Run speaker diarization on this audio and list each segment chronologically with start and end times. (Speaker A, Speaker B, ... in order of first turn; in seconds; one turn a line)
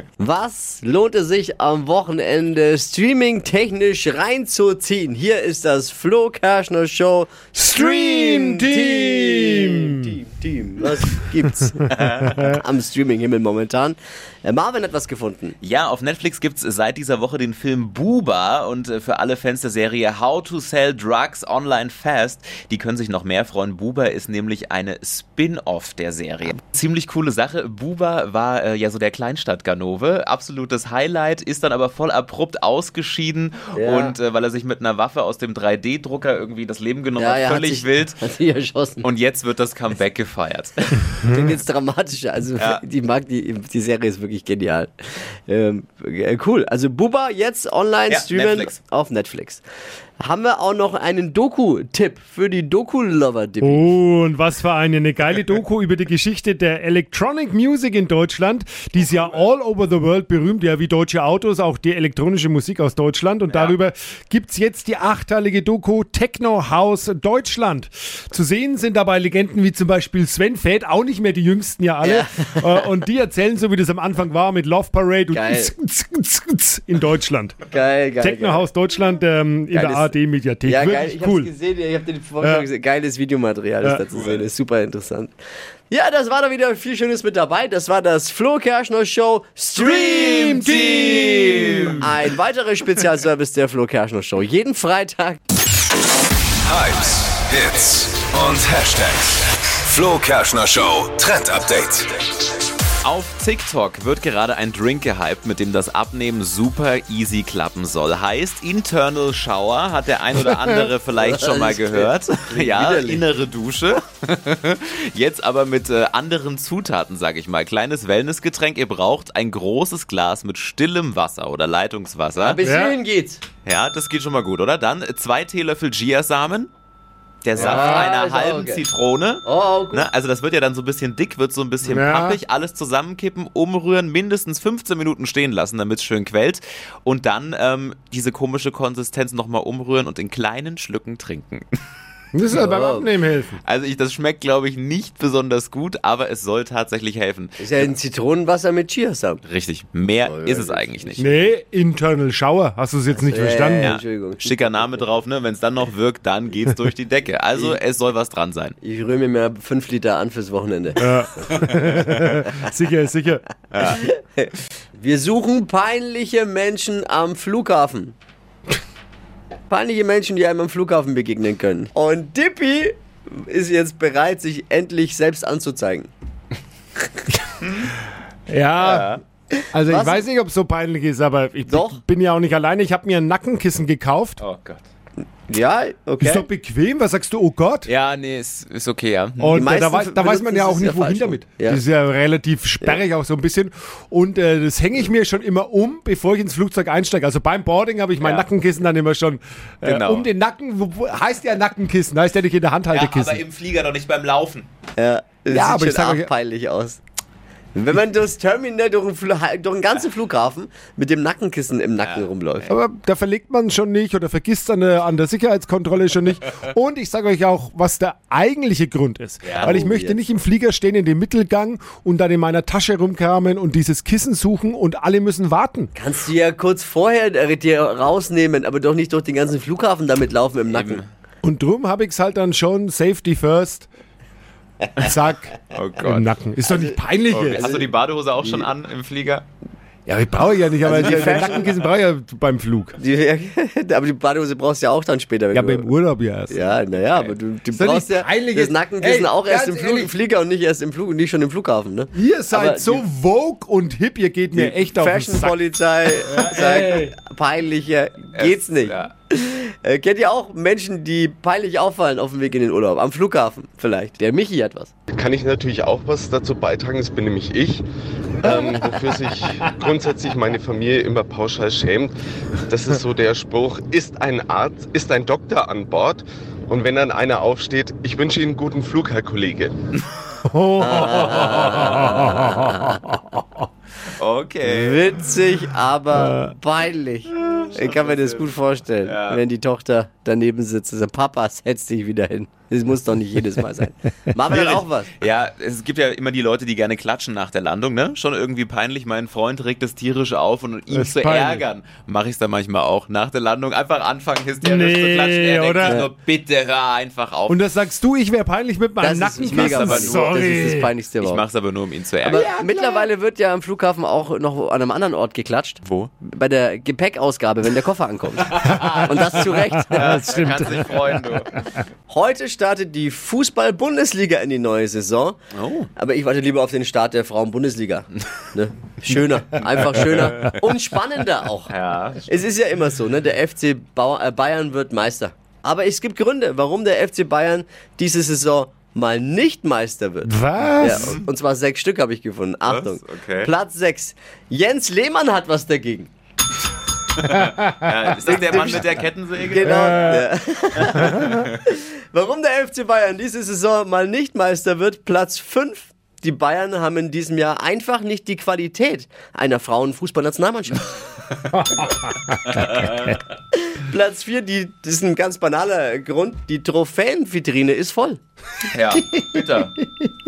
Speaker A: 0.2-11.8
Speaker B: 7.6-10.1
Speaker C: 11.9-12.6
Speaker A: 12.4-15.6
Speaker C: 15.6-38.2
Speaker A: 33.8-34.2
Speaker A: 37.2-39.1
Speaker C: 39.0-41.2
Speaker A: 41.2-49.6
Speaker C: 48.1-48.8
Speaker A: 50.2-53.9
Speaker B: 53.6-77.6
Speaker A: 72.0-72.8
Speaker A: 75.3-75.7
Speaker A: 77.7-78.7
Speaker B: 78.2-81.5
Speaker A: 79.7-80.1
Speaker A: 80.7-85.3
Speaker B: 82.4-82.7
Speaker C: 84.1-84.5
Speaker A: 85.9-90.6
Speaker C: 89.8-92.0
Speaker B: 90.0-92.0
Speaker A: 92.0-95.4
Speaker D: 96.6-102.2
Speaker C: 103.0-122.6
Speaker A: 111.1-113.2
Speaker A: 122.4-123.4
Speaker B: 122.6-123.0
Speaker C: 123.7-126.7
Speaker C: 127.4-141.7
Speaker A: 127.6-128.8
Speaker B: 127.6-128.1
Speaker A: 129.4-130.1
Speaker B: 131.8-132.4
Speaker B: 142.3-143.6
Speaker A: 142.5-143.1
Speaker C: 143.6-147.9
Speaker A: 147.6-149.4
Speaker C: 149.4-151.3
Speaker A: 150.2-151.3
Speaker B: 151.2-153.9
Speaker A: 153.1-155.1
Speaker C: 153.8-158.8
Speaker A: 158.8-161.0
Speaker B: 161.0-163.4
Speaker C: 161.6-162.0
Speaker C: 163.7-164.1
Speaker A: 163.8-168.2
Speaker A: 169.7-176.1
Speaker C: 177.6-177.9
Speaker B: 178.5-179.2
Speaker C: 178.8-179.2
Speaker A: 179.6-180.3
Speaker B: 179.7-184.4
Speaker A: 181.7-182.0
Speaker C: 184.4-184.8
Speaker A: 185.5-186.5
Speaker B: 186.2-187.9
Speaker C: 187.9-189.7
Speaker B: 189.4-203.4
Speaker A: 189.5-191.8
Speaker C: 198.2-198.5
Speaker C: 199.8-200.3
Speaker C: 202.9-204.7
Speaker A: 205.0-207.0
Speaker B: 205.5-206.3
Speaker A: 207.8-212.7
Speaker C: 212.0-212.3
Speaker B: 212.7-225.9
Speaker C: 219.4-219.8
Speaker A: 219.6-220.2
Speaker A: 225.9-231.0
Speaker C: 230.7-231.1
Speaker B: 231.4-233.9
Speaker B: 235.0-237.7
Speaker C: 235.7-236.3
Speaker C: 237.3-239.5
Speaker A: 237.6-237.9
Speaker B: 240.1-242.9
Speaker A: 240.8-241.7
Speaker A: 243.0-245.9
Speaker B: 245.5-246.6
Speaker A: 246.5-253.0
Speaker B: 247.7-250.1
Speaker B: 252.1-255.6
Speaker A: 254.5-264.9
Speaker B: 256.2-257.1
Speaker C: 258.4-259.1
Speaker E: 265.1-267.8
Speaker E: 268.4-279.7
Speaker B: 280.5-283.1
Speaker A: 280.8-283.1
Speaker C: 281.0-282.4
Speaker C: 284.2-285.0
Speaker A: 284.7-295.1
Speaker B: 286.2-286.6
Speaker C: 287.3-289.4
Speaker C: 294.5-307.7
Speaker B: 300.9-301.6
Speaker B: 304.6-306.0
Speaker A: 305.9-306.1
Speaker B: 307.5-310.9
Speaker A: 309.0-311.4
Speaker C: 309.5-310.1
Speaker C: 311.2-312.5
Speaker A: 312.3-320.3
Speaker B: 312.3-313.1
Speaker C: 315.8-316.1
Speaker C: 318.5-321.5
Speaker B: 319.9-321.4
Speaker A: 322.1-325.4
Speaker C: 325.5-325.9
Speaker A: 326.0-331.7
Speaker C: 331.7-332.4
Speaker A: 332.3-346.1
Speaker B: 340.2-341.2
Speaker C: 340.9-341.2
Speaker C: 342.7-343.5
Speaker C: 347.1-350.1
Speaker A: 348.2-360.9
Speaker B: 349.6-350.3
Speaker C: 351.2-351.6
Speaker C: 361.3-361.9
Speaker C: 362.4-363.2
Speaker A: 363.6-368.2
Speaker C: 368.7-369.8